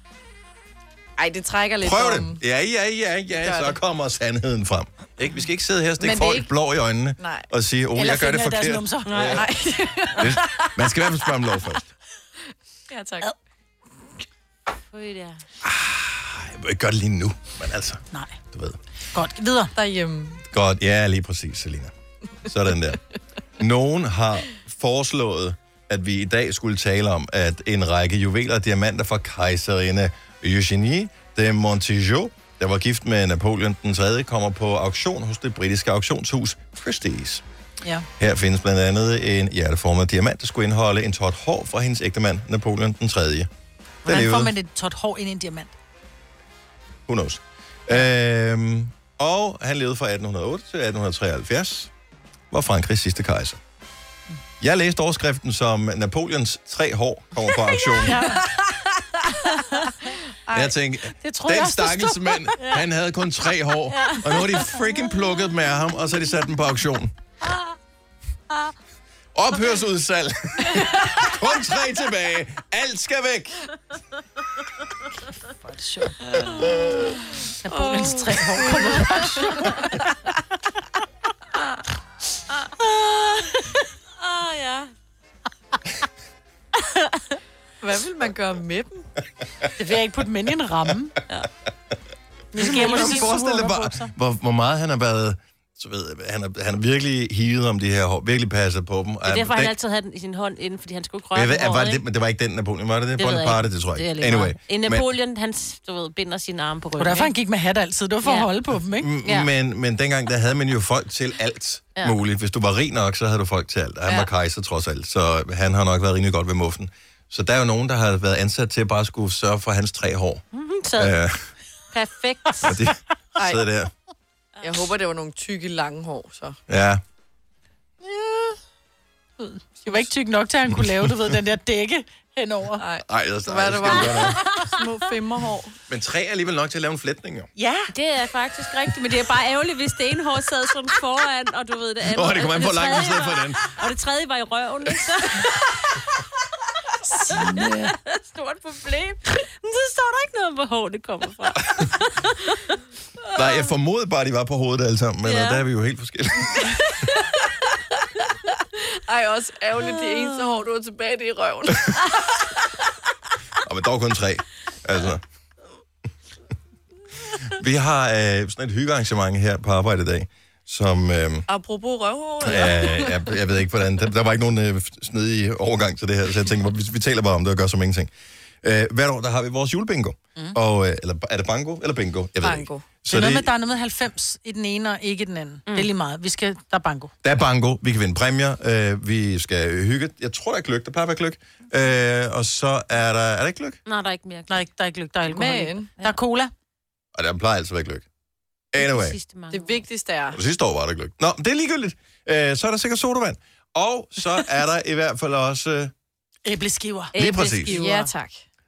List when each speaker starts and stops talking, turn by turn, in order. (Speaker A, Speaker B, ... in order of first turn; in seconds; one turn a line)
Speaker A: 1.2-2.4
Speaker B: 1.8-9.4
Speaker A: 3.4-3.8
Speaker A: 6.0-6.5
Speaker A: 7.2-7.5
Speaker C: 7.9-9.4
Speaker D: 9.1-9.4
Speaker A: 9.3-10.8
Speaker B: 10.2-11.9
Speaker A: 12.9-13.3
Speaker D: 14.9-15.4
Speaker B: 15.6-18.8
Speaker C: 18.1-18.4
Speaker C: 19.1-19.7
Speaker A: 19.7-20.4
Speaker B: 20.5-21.9
Speaker B: 22.4-23.0
Speaker B: 23.6-37.4
Speaker B: 38.2-43.5
Speaker B: 44.0-44.5
Speaker C: 44.0-45.7
Speaker B: 47.1-51.9
Speaker B: 52.5-53.6
Speaker B: 54.6-58.4
Speaker C: 58.0-58.6
Speaker A: 60.5-60.7
Speaker B: 60.5-67.1
Speaker C: 61.2-62.8
Speaker C: 63.9-64.6
Speaker B: 69.3-73.7
Speaker A: 70.7-71.0
Speaker C: 75.5-76.7
Speaker A: 76.5-80.0
Speaker C: 77.6-80.0
Speaker D: 84.2-84.9
Speaker A: 87.8-89.0
Speaker C: 89.8-91.2
Speaker C: 92.5-94.1
Speaker B: 92.6-99.7
Speaker D: 92.7-93.2
Speaker D: 99.2-102.0
Speaker B: 101.3-105.1
Speaker D: 103.2-107.3
Speaker C: 107.0-109.1
Speaker D: 108.2-108.5
Speaker B: 109.0-120.4
Speaker D: 120.5-121.2
Speaker B: 121.0-121.5
Speaker D: 121.9-122.8
Speaker B: 122.6-123.9
Speaker A: 123.3-123.6
Speaker A: 124.6-126.6
Speaker B: 126.7-127.0
Speaker C: 128.1-128.5
Speaker C: 129.4-132.8
Speaker A: 132.8-135.8
Speaker B: 133.1-134.4
Speaker B: 135.9-137.5
Speaker C: 137.6-137.9
Speaker D: 137.9-145.6
Speaker B: 142.0-143.7
Speaker D: 147.2-152.7
Speaker B: 153.3-156.8
Speaker D: 155.2-155.6
Speaker A: 156.7-157.5
Speaker A: 158.7-162.1
Speaker B: 163.6-165.2
Speaker B: 167.4-171.4
Speaker A: 171.5-173.3
Speaker B: 172.4-178.1
Speaker B: 178.6-183.5
Speaker A: 182.4-182.8
Speaker C: 183.1-187.1
Speaker B: 187.2-193.8
Speaker D: 193.8-194.7
Speaker C: 194.5-196.5
Speaker A: 195.3-195.9
Speaker B: 197.1-198.0
Speaker B: 198.7-199.2
Speaker D: 198.8-199.8
Speaker A: 199.5-200.4
Speaker B: 200.3-205.9
Speaker C: 206.4-208.1
Speaker D: 207.1-207.7
Speaker B: 207.2-207.8
Speaker A: 207.7-208.4